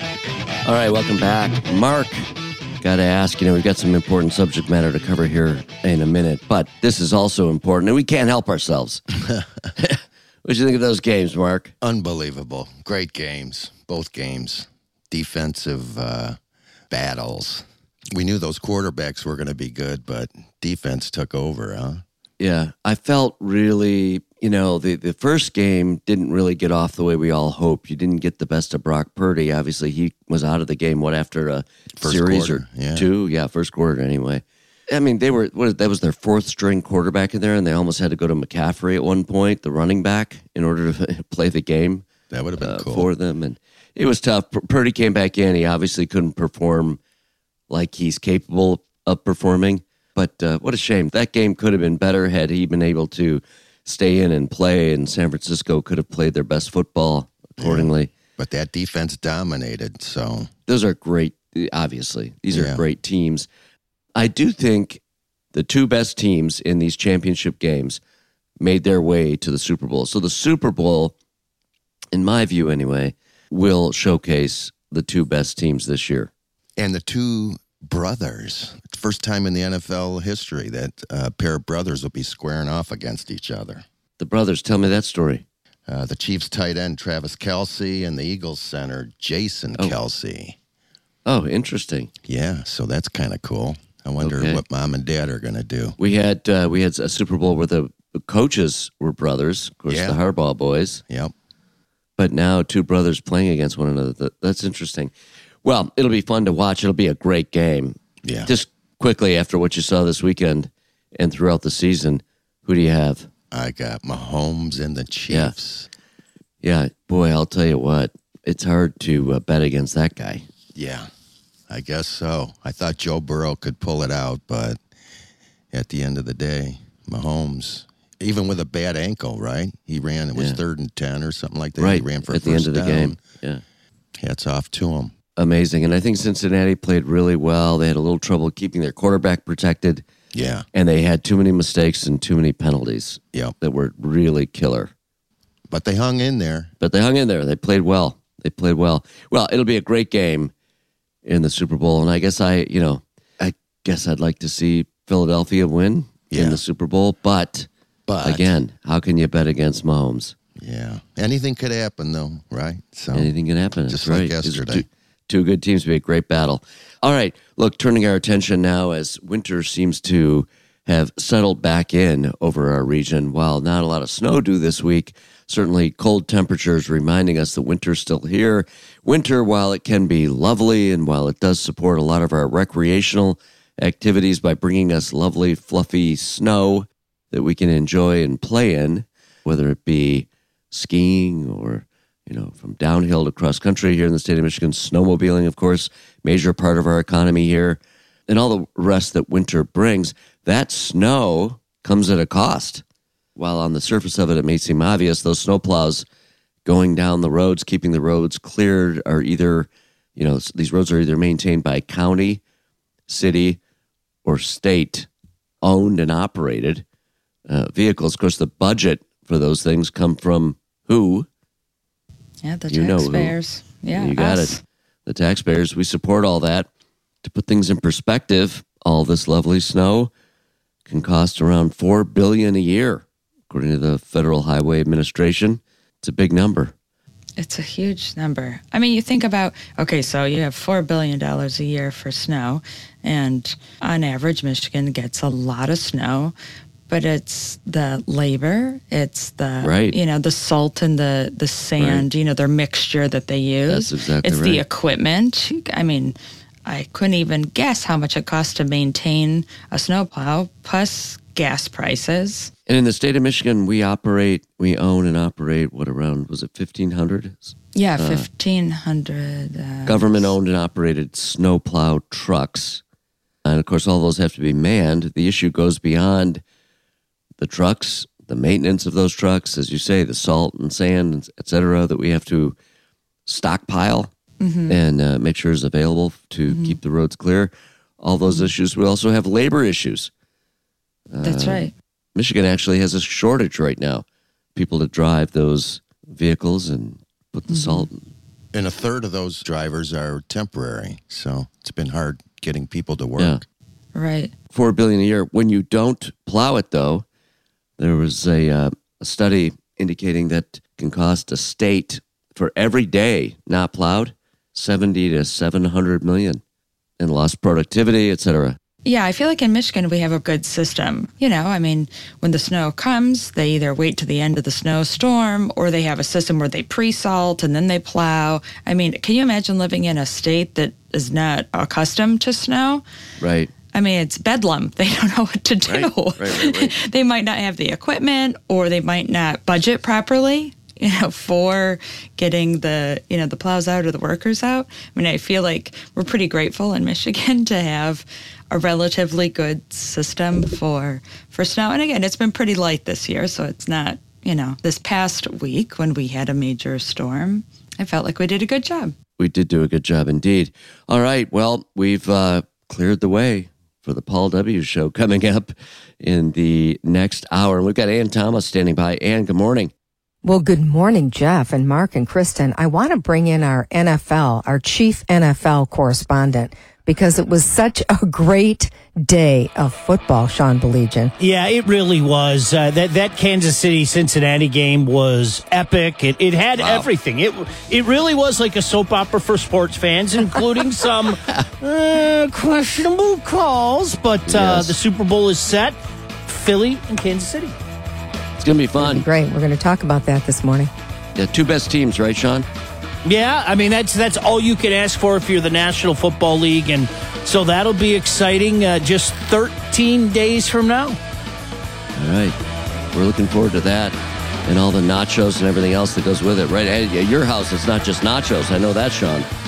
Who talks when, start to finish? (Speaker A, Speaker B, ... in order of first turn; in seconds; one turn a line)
Speaker A: 0.6-2.2
Speaker A: 2.8-9.0
Speaker A: 9.8-11.7
Speaker B: 11.8-16.4
Speaker B: 16.9-22.0
Speaker A: 22.4-42.0
Speaker B: 32.0-33.1
Speaker B: 42.3-43.1
Speaker A: 42.6-47.0
Speaker A: 47.7-58.1
Speaker B: 57.6-60.5
Speaker A: 60.7-63.5
Speaker B: 62.5-62.8
Speaker A: 64.1-65.0
Speaker A: 65.5-68.0
Speaker A: 68.6-71.1
Speaker A: 72.1-76.3
Speaker B: 76.8-83.8
Speaker A: 84.2-85.4
Speaker B: 85.9-90.5
Speaker A: 91.2-92.1
Speaker B: 92.2-96.0
Speaker A: 94.2-94.6
Speaker A: 96.0-101.0
Speaker B: 99.9-100.2
Speaker A: 102.2-105.1
Speaker A: 105.6-113.3
Speaker B: 108.2-108.5
Speaker B: 113.5-115.9
Speaker A: 115.3-115.5
Speaker A: 116.6-120.5
Speaker B: 120.8-121.1
Speaker B: 121.7-124.8
Speaker B: 125.7-133.2
Speaker A: 131.8-133.6
Speaker B: 134.2-135.1
Speaker A: 135.4-140.1
Speaker B: 140.3-140.7
Speaker A: 140.7-144.9
Speaker B: 145.7-146.7
Speaker A: 146.8-150.5
Speaker A: 151.2-157.7
Speaker B: 156.3-156.6
Speaker B: 158.1-158.6
Speaker A: 158.2-160.3
Speaker B: 160.6-163.3
Speaker A: 163.1-202.8
Speaker B: 163.9-164.8
Speaker A: 203.4-206.1
Speaker A: 206.7-212.4
Speaker A: 213.1-213.6
Speaker A: 214.2-215.1
Speaker A: 215.6-216.8
Speaker A: 217.5-221.3
Speaker C: 222.4-224.6
Speaker A: 222.7-223.3
Speaker A: 223.9-224.6
Speaker A: 225.1-226.7
Speaker A: 227.2-230.1
Speaker A: 230.9-236.7
Speaker C: 237.4-246.3
Speaker C: 246.9-262.5
Speaker A: 249.6-249.9
Speaker A: 251.8-252.1
Speaker A: 253.7-254.6
Speaker A: 262.7-268.2
Speaker C: 267.8-270.3
Speaker A: 269.9-272.8
Speaker A: 273.4-276.4
Speaker A: 277.4-282.6
Speaker A: 283.2-284.1
Speaker C: 284.4-284.8
Speaker A: 284.7-290.1
Speaker C: 286.5-286.8
Speaker A: 291.1-298.1
Speaker C: 291.2-291.7
Speaker C: 297.5-297.9
Speaker B: 298.5-303.4
Speaker C: 303.9-304.3
Speaker A: 304.5-307.1
Speaker A: 307.8-316.4
Speaker A: 317.0-318.6
Speaker C: 318.8-332.8
Speaker A: 333.2-333.5
Speaker C: 333.7-358.9
Speaker A: 335.6-336.8
Speaker A: 359.2-369.7
Speaker D: 370.2-381.1
Speaker E: 381.2-397.6
Speaker A: 386.6-386.9
Speaker A: 394.2-394.8
Speaker A: 398.4-399.0
Speaker D: 398.8-400.7
Speaker A: 401.1-402.5
Speaker E: 403.0-411.0
Speaker A: 412.0-412.4
Speaker A: 412.9-419.3